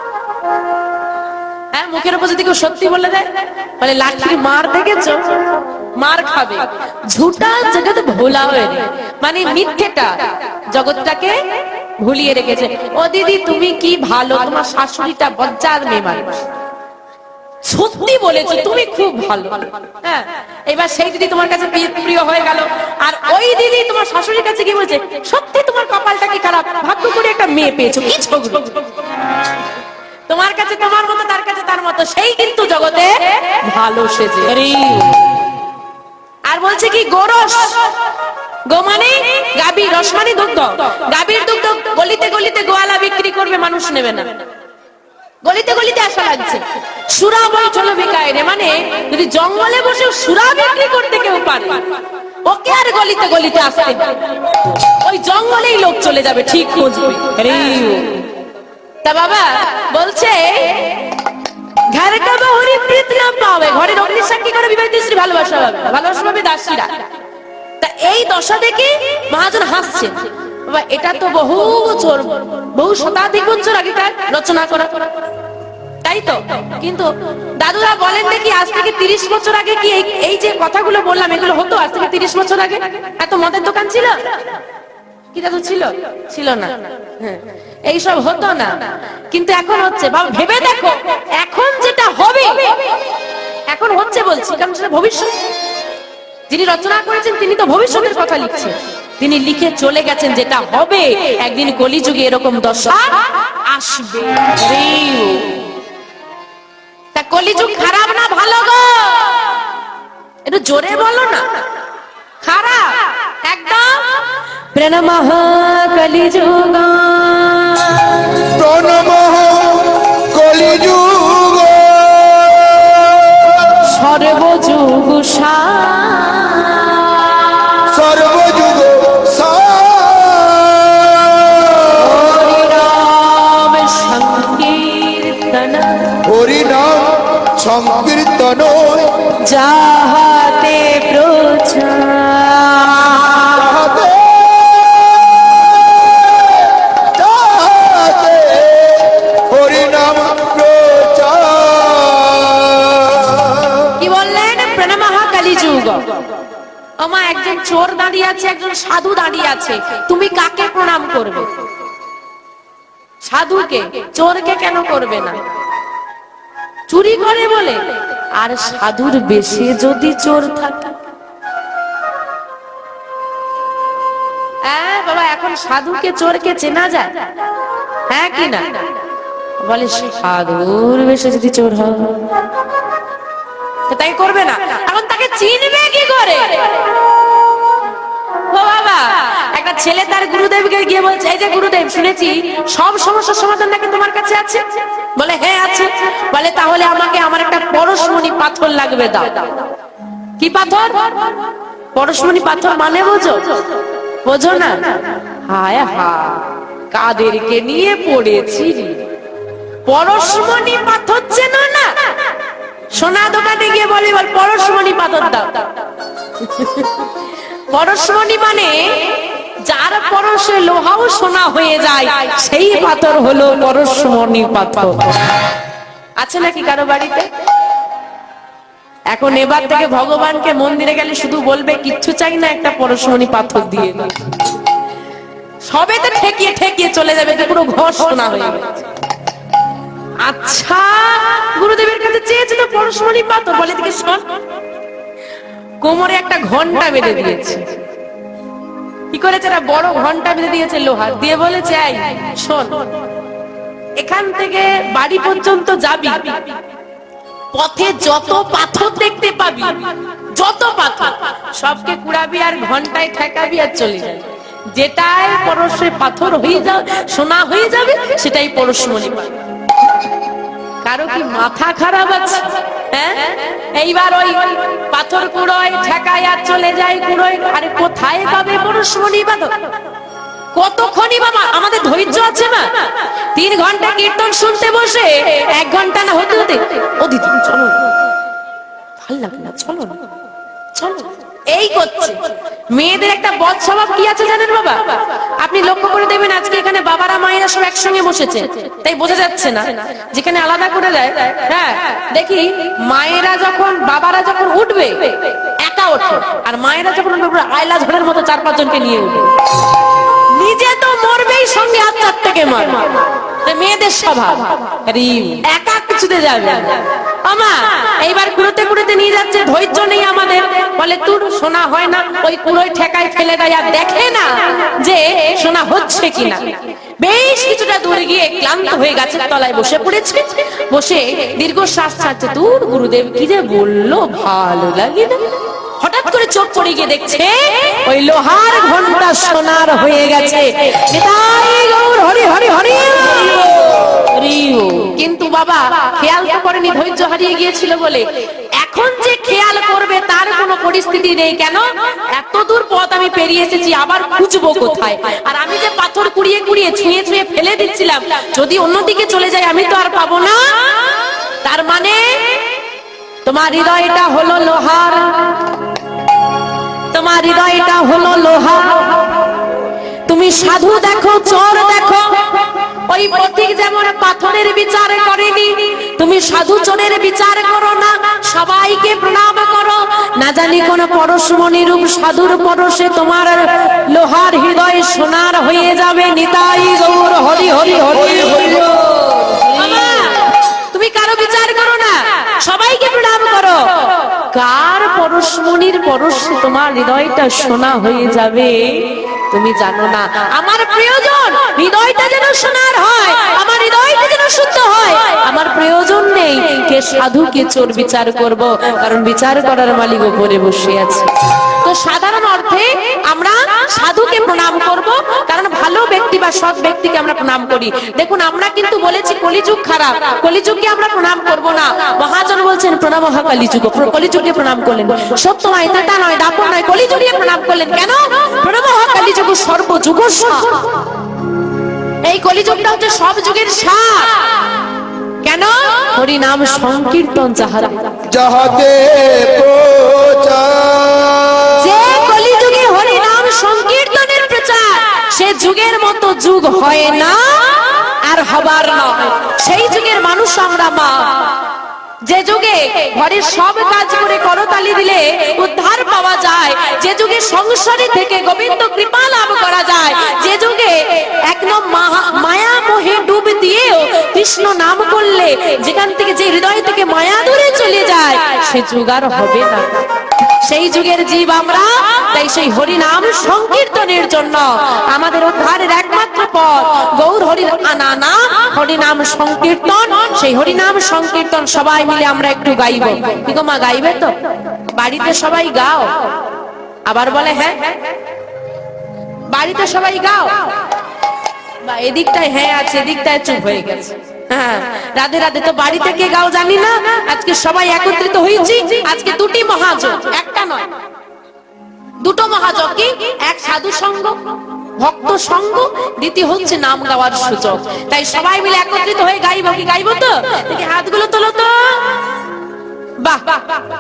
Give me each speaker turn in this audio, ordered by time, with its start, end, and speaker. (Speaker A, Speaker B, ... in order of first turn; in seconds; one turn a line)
Speaker A: 1.7-10.1
Speaker A: 10.7-11.4
Speaker A: 12.0-16.4
Speaker A: 17.6-28.8
Speaker A: 30.3-34.5
Speaker B: 34.5-35.3
Speaker A: 36.5-37.9
Speaker A: 38.7-44.3
Speaker A: 45.5-51.9
Speaker A: 52.5-57.4
Speaker B: 57.4-58.3
Speaker A: 59.0-61.1
Speaker A: 61.9-67.1
Speaker A: 67.8-75.2
Speaker A: 76.0-84.2
Speaker A: 85.3-88.8
Speaker A: 89.3-93.0
Speaker A: 93.7-95.3
Speaker A: 96.5-104.5
Speaker B: 104.6-105.5
Speaker A: 107.2-109.5
Speaker A: 110.5-111.4
Speaker A: 112.4-114.2
Speaker A: 114.7-118.4
Speaker C: 118.5-123.5
Speaker A: 123.8-127.9
Speaker C: 127.9-132.3
Speaker A: 131.9-136.2
Speaker C: 136.2-139.3
Speaker A: 139.4-143.7
Speaker C: 143.5-145.1
Speaker C: 146.4-153.9
Speaker A: 154.0-156.2
Speaker A: 157.0-161.5
Speaker A: 163.2-165.4
Speaker A: 166.9-167.8
Speaker A: 168.4-171.0
Speaker A: 174.7-177.2
Speaker A: 178.1-178.8
Speaker A: 179.6-182.4
Speaker A: 183.9-186.8
Speaker A: 188.5-194.7
Speaker A: 195.2-199.6
Speaker A: 200.4-201.3
Speaker A: 201.9-203.6
Speaker A: 204.2-209.0
Speaker A: 209.9-212.0
Speaker A: 213.0-215.7
Speaker A: 216.4-217.1
Speaker A: 217.7-225.2
Speaker A: 226.2-227.3
Speaker A: 229.1-234.1
Speaker A: 235.7-238.7
Speaker A: 240.2-244.3
Speaker A: 245.8-247.7
Speaker A: 249.1-252.9
Speaker A: 254.0-256.5
Speaker A: 257.5-269.4
Speaker A: 270.8-279.6
Speaker A: 280.5-287.9
Speaker A: 289.0-290.0
Speaker A: 290.8-309.3
Speaker A: 310.3-343.9
Speaker B: 344.1-345.0
Speaker A: 345.0-362.6
Speaker A: 363.2-365.6
Speaker A: 366.9-369.2
Speaker A: 370.1-388.6
Speaker C: 387.9-388.6
Speaker B: 388.3-390.2
Speaker A: 389.5-430.7
Speaker A: 432.0-434.3
Speaker A: 435.2-438.0
Speaker C: 438.1-441.8
Speaker A: 441.6-451.3
Speaker A: 452.0-469.9
Speaker A: 470.4-484.1
Speaker A: 484.7-486.1
Speaker A: 486.9-487.8
Speaker A: 489.3-490.5
Speaker A: 491.6-500.7
Speaker A: 502.0-504.2
Speaker A: 504.8-512.1
Speaker A: 513.0-513.6